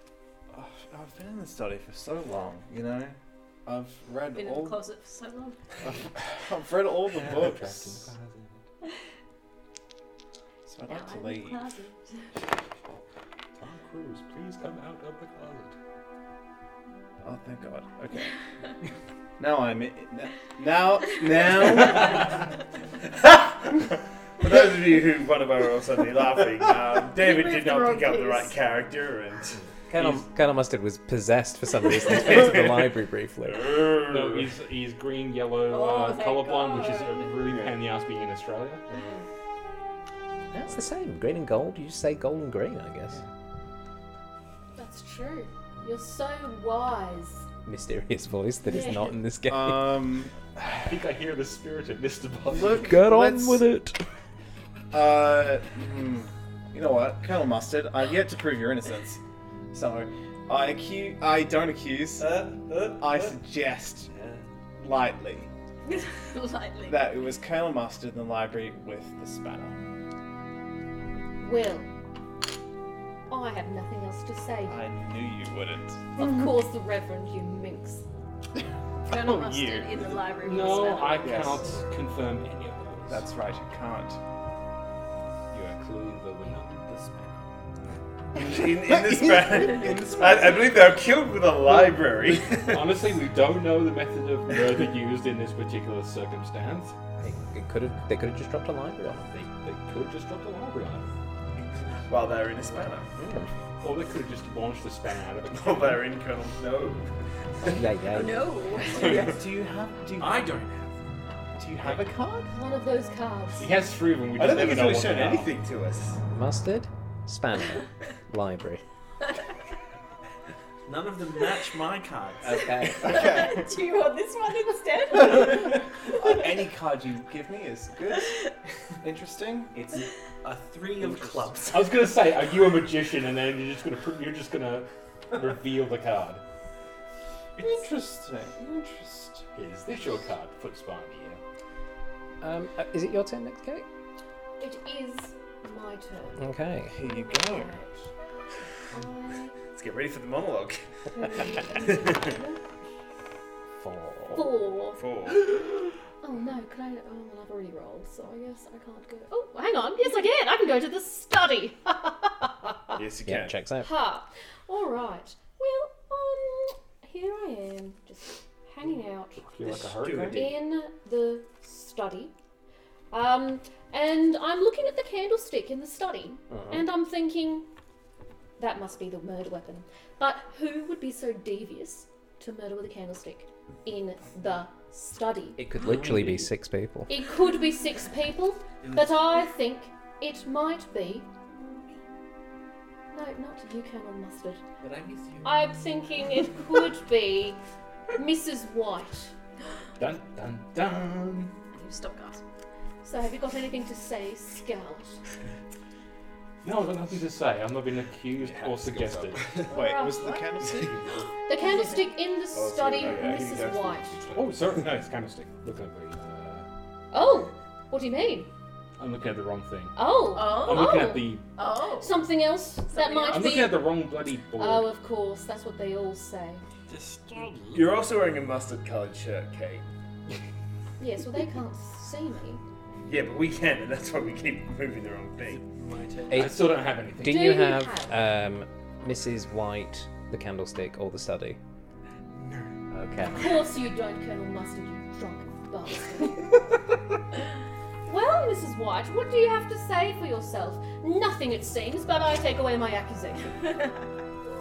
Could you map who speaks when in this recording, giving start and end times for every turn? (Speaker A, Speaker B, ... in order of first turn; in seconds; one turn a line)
Speaker A: 0.5-4.8
Speaker B: 4.3-5.6
Speaker A: 5.8-8.0
Speaker C: 7.1-8.6
Speaker A: 10.7-11.7
Speaker B: 10.9-12.2
Speaker C: 13.6-15.7
Speaker A: 17.2-18.4
Speaker A: 19.4-22.4
Speaker D: 23.2-23.6
Speaker D: 24.4-29.6
Speaker B: 27.1-28.6
Speaker E: 29.9-33.8
Speaker D: 33.5-34.5
Speaker C: 34.0-38.8
Speaker B: 35.7-37.2
Speaker E: 40.5-43.2
Speaker F: 44.8-47.5
Speaker E: 47.6-50.0
Speaker F: 48.6-49.1
Speaker A: 49.5-50.8
Speaker C: 50.7-53.0
Speaker A: 52.5-53.7
Speaker E: 52.8-54.0
Speaker A: 54.9-59.2
Speaker A: 59.7-62.3
Speaker G: 62.2-63.4
Speaker A: 63.0-64.1
Speaker G: 64.1-64.4
Speaker A: 64.8-65.5
Speaker B: 65.8-67.1
Speaker A: 66.8-69.7
Speaker F: 71.4-71.9
Speaker F: 73.3-74.8
Speaker A: 74.7-76.0
Speaker F: 76.2-78.0
Speaker B: 79.0-81.5
Speaker A: 79.1-80.3
Speaker C: 80.4-83.2
Speaker A: 81.2-81.8
Speaker A: 83.1-84.2
Speaker C: 85.5-86.6
Speaker G: 86.4-87.5
Speaker A: 88.3-90.7
Speaker D: 88.3-92.9
Speaker C: 92.6-96.9
Speaker E: 97.2-99.3
Speaker C: 99.3-101.1
Speaker G: 101.5-103.1
Speaker D: 102.1-103.1
Speaker E: 103.2-103.5
Speaker C: 103.8-106.1
Speaker D: 105.5-107.8
Speaker E: 107.7-108.5
Speaker B: 108.1-109.4
Speaker A: 108.8-110.5
Speaker G: 110.1-111.1
Speaker A: 111.6-112.5
Speaker G: 111.8-112.1
Speaker F: 112.5-113.7
Speaker C: 113.6-115.5
Speaker D: 114.3-116.2
Speaker E: 116.3-118.8
Speaker G: 120.8-122.7
Speaker E: 122.4-123.2
Speaker B: 122.6-126.3
Speaker A: 123.0-123.6
Speaker A: 125.2-129.7
Speaker G: 129.7-132.1
Speaker C: 131.7-136.4
Speaker A: 137.6-139.4
Speaker C: 139.6-141.4
Speaker E: 142.4-143.8
Speaker F: 144.6-146.4
Speaker E: 146.4-146.9
Speaker A: 146.9-147.7
Speaker F: 146.9-148.1
Speaker F: 148.9-149.5
Speaker D: 149.7-150.8
Speaker F: 151.1-152.6
Speaker D: 151.5-152.4
Speaker C: 153.8-154.3
Speaker F: 154.3-155.0
Speaker D: 154.9-155.5
Speaker F: 156.2-163.0
Speaker D: 162.9-163.6
Speaker E: 163.2-163.9
Speaker F: 163.8-169.4
Speaker C: 169.4-170.5
Speaker D: 169.6-170.5
Speaker F: 170.3-172.3
Speaker F: 173.1-177.7
Speaker E: 176.5-176.8
Speaker F: 178.6-185.6
Speaker E: 185.6-187.1
Speaker C: 185.8-186.5
Speaker F: 187.1-191.3
Speaker G: 188.8-189.2
Speaker F: 193.1-194.6
Speaker G: 194.8-195.6
Speaker F: 195.4-197.6
Speaker F: 198.1-199.3
Speaker C: 200.0-201.5
Speaker B: 201.7-202.4
Speaker F: 203.0-205.2
Speaker C: 206.6-209.5
Speaker G: 208.4-209.7
Speaker A: 209.7-210.9
Speaker F: 209.7-210.4
Speaker G: 210.7-211.2
Speaker F: 211.5-214.2
Speaker B: 211.6-211.9
Speaker D: 212.5-214.8
Speaker A: 213.1-213.4
Speaker C: 214.3-216.7
Speaker F: 217.1-218.5
Speaker C: 219.0-221.4
Speaker F: 219.9-221.4
Speaker B: 220.3-222.2
Speaker F: 222.0-224.0
Speaker B: 222.9-223.7
Speaker C: 223.3-224.9
Speaker F: 224.5-226.6
Speaker G: 226.9-228.0
Speaker D: 227.7-229.8
Speaker F: 231.0-232.6
Speaker D: 233.0-235.6
Speaker G: 235.4-236.7
Speaker E: 236.3-241.6
Speaker C: 236.3-237.4
Speaker F: 237.2-238.2
Speaker G: 242.3-242.7
Speaker E: 242.9-243.4
Speaker F: 243.4-246.5
Speaker F: 248.1-253.7